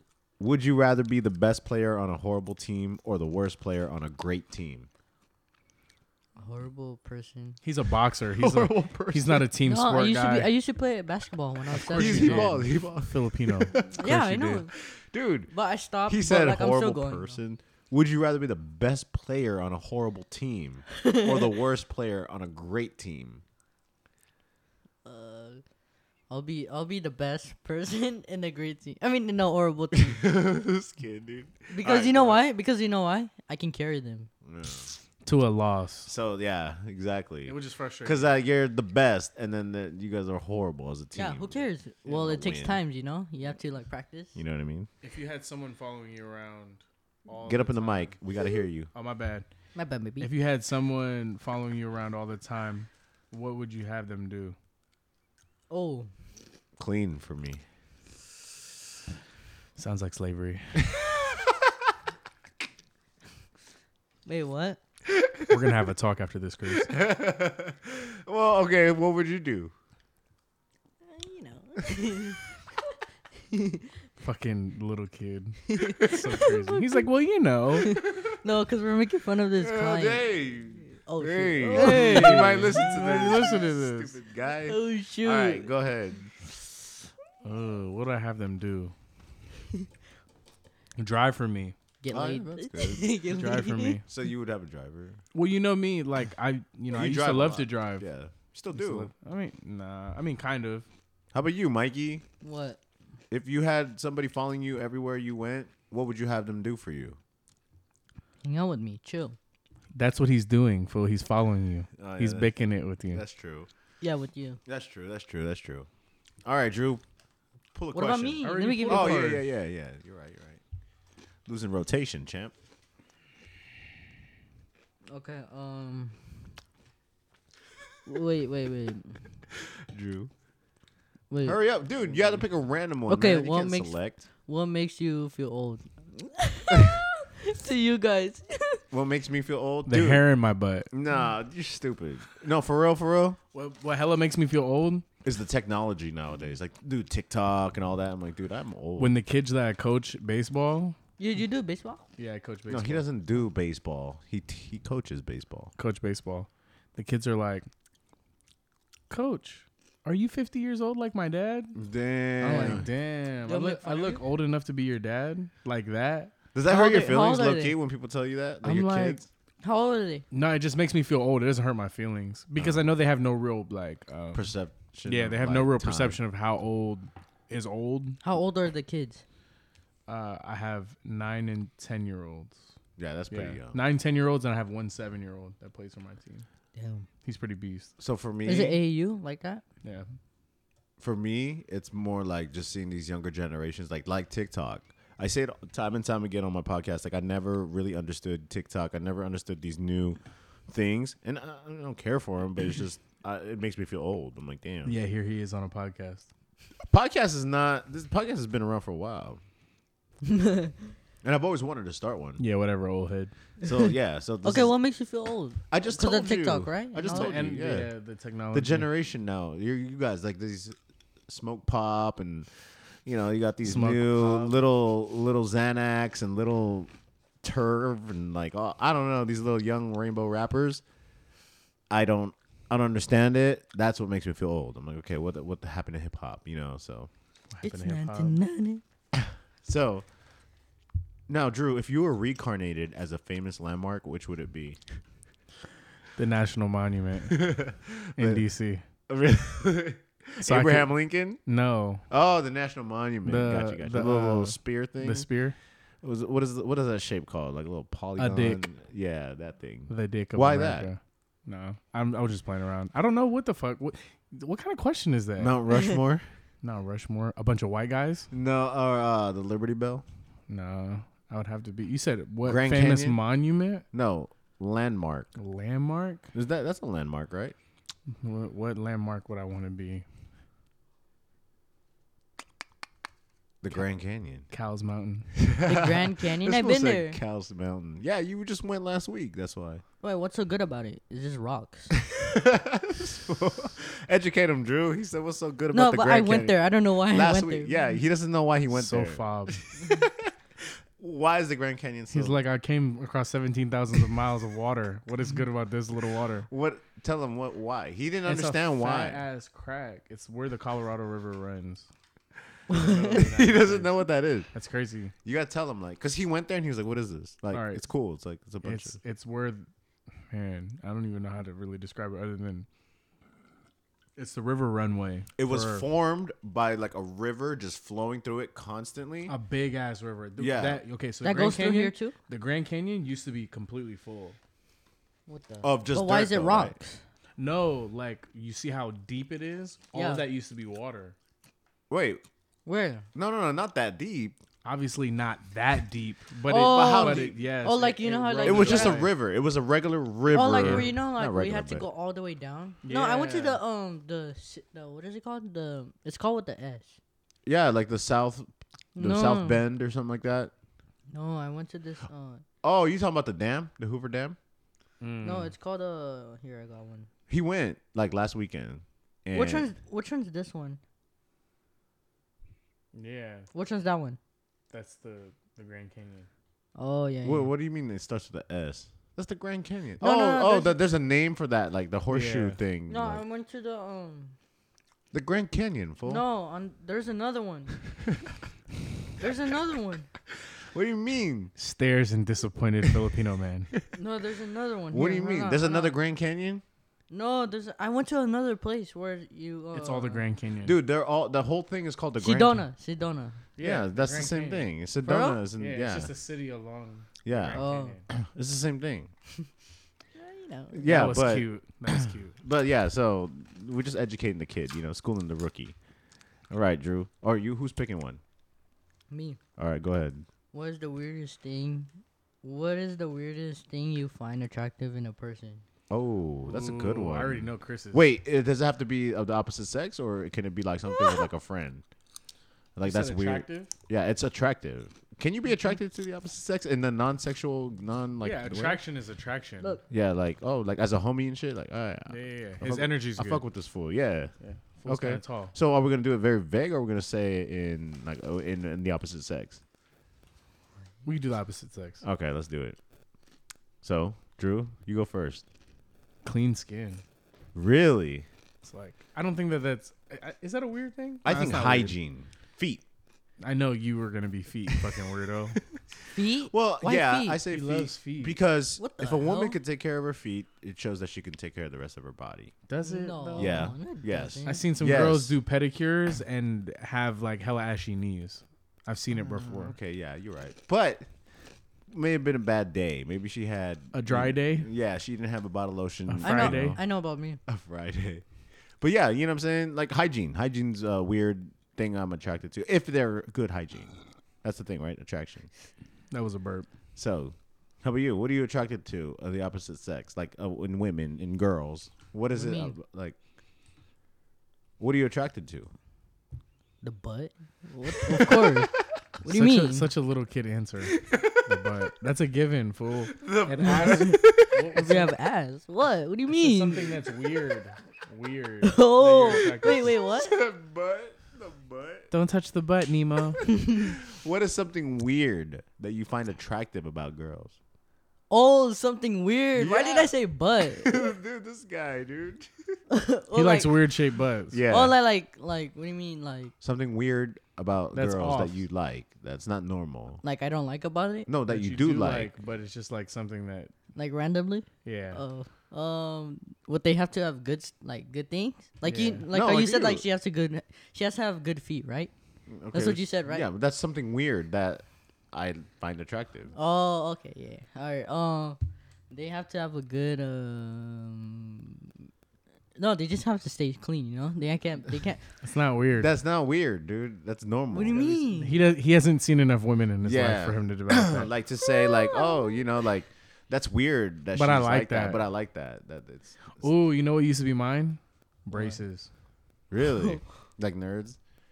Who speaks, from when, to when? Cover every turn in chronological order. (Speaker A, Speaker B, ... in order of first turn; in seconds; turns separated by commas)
Speaker A: 0.4-4.9, Speaker B: 6.4-7.6, Speaker C: 7.6-10.5, Speaker A: 8.3-9.5, Speaker B: 9.6-12.5, Speaker C: 11.7-14.7, Speaker A: 11.9-14.0, Speaker B: 13.9-14.7, Speaker A: 14.8-15.5, Speaker B: 15.5-17.4, Speaker A: 16.1-23.4, Speaker B: 21.0-21.5, Speaker B: 25.0-25.6, Speaker B: 26.3-30.2, Speaker A: 30.0-32.4, Speaker B: 31.7-34.3, Speaker A: 34.5-35.0, Speaker C: 35.2-36.1, Speaker A: 36.0-42.8, Speaker C: 37.5-38.3, Speaker B: 41.1-44.4, Speaker A: 44.4-44.9, Speaker C: 45.0-48.1, Speaker A: 47.4-48.9, Speaker C: 48.9-49.5, Speaker B: 49.8-50.3, Speaker C: 50.2-54.5, Speaker B: 55.7-56.1, Speaker A: 56.8-57.6, Speaker C: 59.8-60.9, Speaker A: 60.8-61.7, Speaker B: 64.2-64.8, Speaker A: 65.1-65.6, Speaker C: 65.5-67.0, Speaker A: 66.7-69.7, Speaker B: 71.0-72.5, Speaker B: 73.5-73.9, Speaker C: 74.2-77.9, Speaker B: 75.7-77.0, Speaker B: 77.8-80.2, Speaker A: 79.6-86.4, Speaker B: 80.9-82.9, Speaker C: 81.7-84.2, Speaker B: 84.7-85.7, Speaker C: 87.4-88.9, Speaker C: 91.0-91.8, Speaker B: 92.0-94.0, Speaker A: 92.1-93.1, Speaker C: 93.2-94.0, Speaker A: 94.0-95.2, Speaker C: 95.3-98.0, Speaker A: 96.9-99.1, Speaker C: 98.7-100.9, Speaker A: 101.3-102.2, Speaker B: 102.4-102.8, Speaker A: 103.3-107.2, Speaker B: 108.4-109.4, Speaker C: 110.0-113.2, Speaker A: 112.0-112.5, Speaker A: 113.1-113.7, Speaker B: 114.0-114.6, Speaker A: 114.7-115.9, Speaker A: 116.5-117.0, Speaker A: 117.7-120.6, Speaker B: 117.9-119.2, Speaker C: 118.4-119.4, Speaker A: 121.5-122.5, Speaker B: 125.1-126.2, Speaker B: 128.1-129.2, Speaker A: 129.9-130.3, Speaker B: 131.3-131.6, Speaker A: 131.4-134.2, Speaker B: 133.1-138.8, Speaker A: 138.9-140.2, Speaker C: 139.9-140.9, Speaker A: 140.9-143.4, Speaker C: 143.5-145.0, Speaker A: 145.2-149.2, Speaker C: 149.0-151.0, Speaker B: 151.2-152.0, Speaker C: 152.2-153.0, Speaker A: 152.7-155.7, Speaker C: 155.8-157.7, Speaker C: 159.1-161.8, Speaker A: 161.8-162.9, Speaker C: 162.4-166.3, Speaker B: 162.5-162.8, Speaker B: 163.4-164.2, Speaker A: 166.5-169.3, Speaker B: 166.7-167.8, Speaker B: 168.6-170.2, Speaker C: 170.3-174.5, Speaker A: 172.6-172.8, Speaker A: 174.3-176.2, Speaker C: 175.0-178.2, Speaker B: 178.2-179.2, Speaker C: 180.1-182.6, Speaker A: 183.0-183.8, Speaker C: 183.3-186.4, Speaker B: 186.8-187.1, Speaker C: 187.2-187.9, Speaker A: 188.0-188.8, Speaker B: 188.4-189.6, Speaker A: 191.0-205.0, Speaker C: 204.8-206.3, Speaker A: 206.9-209.4, Speaker B: 210.2-210.8, Speaker A: 211.2-212.4, Speaker C: 212.4-213.3, Speaker A: 213.6-214.7, Speaker B: 214.4-217.4, Speaker A: 215.7-217.9, Speaker C: 217.1-218.9, Speaker A: 218.5-220.8, Speaker A: 221.3-222.5, Speaker A: 223.0-226.9, Speaker C: 223.6-224.6, Speaker A: 227.4-230.8, Speaker A: 231.9-237.1, Speaker C: 237.5-238.4, Speaker B: 237.6-238.8, Speaker A: 239.2-240.0, Speaker A: 241.3-244.8, Speaker C: 246.2-247.6, Speaker A: 247.3-248.4, Speaker C: 248.2-248.8, Speaker A: 249.1-251.4, Speaker C: 250.4-250.9, Speaker C: 251.5-252.0, Speaker A: 252.1-255.3, Speaker C: 253.2-255.6, Speaker A: 256.0-260.9, Speaker C: 258.2-258.6, Speaker C: 259.9-265.6, Speaker A: 265.4-266.2, Speaker C: 266.6-268.3, Speaker A: 268.3-270.0, Speaker C: 270.5-273.8, Speaker A: 272.4-273.2, Speaker A: 273.9-275.3, Speaker C: 275.4-276.3, Speaker A: 276.3-277.5, Speaker C: 278.1-280.0, Speaker A: 283.6-284.5, Speaker C: 284.5-285.3, Speaker A: 285.4-289.8, Speaker B: 285.6-287.2, Speaker B: 290.0-292.0, Speaker A: 292.0-296.6, Speaker B: 295.7-297.7, Speaker A: 297.1-302.4, Speaker C: 298.7-299.7, Speaker C: 302.1-306.5, Speaker A: 306.5-309.2, Speaker C: 308.2-311.9, Speaker B: 312.7-313.2, Speaker C: 312.7-315.1, Speaker A: 313.1-314.5, Speaker A: 315.2-319.0, Speaker C: 317.5-317.8, Speaker C: 318.6-319.7, Speaker C: 320.3-322.7, Speaker C: 324.2-325.9, Speaker A: 325.4-329.4, Speaker C: 329.3-334.4, Speaker A: 330.4-330.8, Speaker B: 331.2-332.1, Speaker B: 335.3-337.0, Speaker A: 335.6-336.8, Speaker C: 337.4-341.1, Speaker B: 339.9-340.2, Speaker A: 341.9-342.2, Speaker B: 342.6-343.1, Speaker A: 343.1-344.4, Speaker C: 344.6-349.1, Speaker B: 346.5-349.0, Speaker A: 346.5-347.4, Speaker A: 348.4-351.9, Speaker B: 350.3-357.0, Speaker C: 350.6-350.9, Speaker C: 352.8-353.6, Speaker A: 357.5-360.5, Speaker B: 358.9-359.6, Speaker B: 361.1-362.4, Speaker A: 362.6-364.4, Speaker C: 365.0-365.5, Speaker B: 365.2-367.1, Speaker A: 367.3-369.7, Speaker B: 369.3-370.8, Speaker C: 372.9-373.5, Speaker B: 373.5-374.2, Speaker C: 374.7-376.3, Speaker B: 376.8-377.5, Speaker A: 377.2-383.2, Speaker B: 380.0-380.8, Speaker C: 382.1-382.6, Speaker B: 382.9-384.4, Speaker A: 385.1-386.2, Speaker B: 386.0-387.8, Speaker B: 389.2-390.1, Speaker A: 390.7-391.5, Speaker C: 391.6-393.7, Speaker B: 393.9-396.0, Speaker A: 394.9-396.6, Speaker B: 397.1-400.2, Speaker C: 399.7-400.8, Speaker A: 400.6-402.6, Speaker B: 402.2-403.4, Speaker C: 403.6-404.7, Speaker A: 403.6-406.1, Speaker B: 405.0-405.4, Speaker C: 405.6-408.0, Speaker A: 407.2-409.1, Speaker B: 407.5-408.0, Speaker B: 410.1-410.9, Speaker A: 410.7-411.5, Speaker C: 410.9-412.4, Speaker A: 412.4-415.8, Speaker A: 416.5-418.2, Speaker B: 419.1-419.4, Speaker A: 419.6-420.2, Speaker B: 420.5-421.9, Speaker B: 422.4-425.6, Speaker A: 425.9-431.8, Speaker C: 426.5-428.1, Speaker A: 432.8-438.8, Speaker C: 432.8-433.7, Speaker C: 438.2-439.8, Speaker A: 439.9-444.3, Speaker C: 442.1-443.4, Speaker C: 444.4-445.5, Speaker A: 444.9-449.6, Speaker C: 451.0-452.0, Speaker A: 452.0-452.8, Speaker A: 453.8-455.4, Speaker C: 456.2-457.0, Speaker A: 457.5-458.3, Speaker C: 458.6-461.9, Speaker A: 461.2-462.8, Speaker C: 463.4-465.6, Speaker B: 466.1-467.4, Speaker A: 466.5-472.5, Speaker C: 467.5-468.4, Speaker B: 468.8-469.6, Speaker C: 472.7-473.7, Speaker B: 472.8-474.6, Speaker A: 473.4-475.4, Speaker C: 474.4-479.8, Speaker A: 479.2-481.1, Speaker A: 481.9-486.8, Speaker C: 483.9-484.7, Speaker C: 486.1-486.8, Speaker B: 486.2-487.4, Speaker A: 487.5-488.2, Speaker A: 488.8-495.5, Speaker C: 496.1-496.7, Speaker A: 497.0-503.2, Speaker B: 502.3-502.8, Speaker A: 504.8-505.7, Speaker B: 506.8-508.7, Speaker A: 508.0-508.6, Speaker B: 509.2-509.9, Speaker C: 509.2-515.1, Speaker A: 510.9-511.6, Speaker A: 513.1-514.7, Speaker B: 513.6-516.9, Speaker C: 516.3-520.0, Speaker B: 518.6-520.4, Speaker A: 520.1-522.1, Speaker C: 522.1-523.4, Speaker B: 523.5-523.9, Speaker A: 523.7-527.6, Speaker B: 528.3-531.1, Speaker A: 529.6-530.1, Speaker A: 530.7-532.5, Speaker B: 532.9-533.7, Speaker C: 533.3-534.6, Speaker A: 534.5-535.0, Speaker B: 534.7-536.5, Speaker A: 536.6-540.2, Speaker C: 537.9-538.6, Speaker B: 540.2-541.3, Speaker A: 541.3-542.3, Speaker C: 541.5-543.7, Speaker B: 544.0-552.1, Speaker C: 544.8-545.2, Speaker C: 548.9-549.3, Speaker A: 549.3-550.0, Speaker A: 552.5-556.5, Speaker B: 552.7-553.5, Speaker B: 556.5-558.6, Speaker B: 559.1-561.9, Speaker B: 562.8-565.2, Speaker C: 565.4-566.1, Speaker A: 566.0-568.3, Speaker B: 567.7-568.6, Speaker C: 568.4-571.3, Speaker A: 570.0-576.7, Speaker B: 571.6-572.6, Speaker C: 574.4-575.2, Speaker C: 576.6-579.1, Speaker A: 579.7-581.2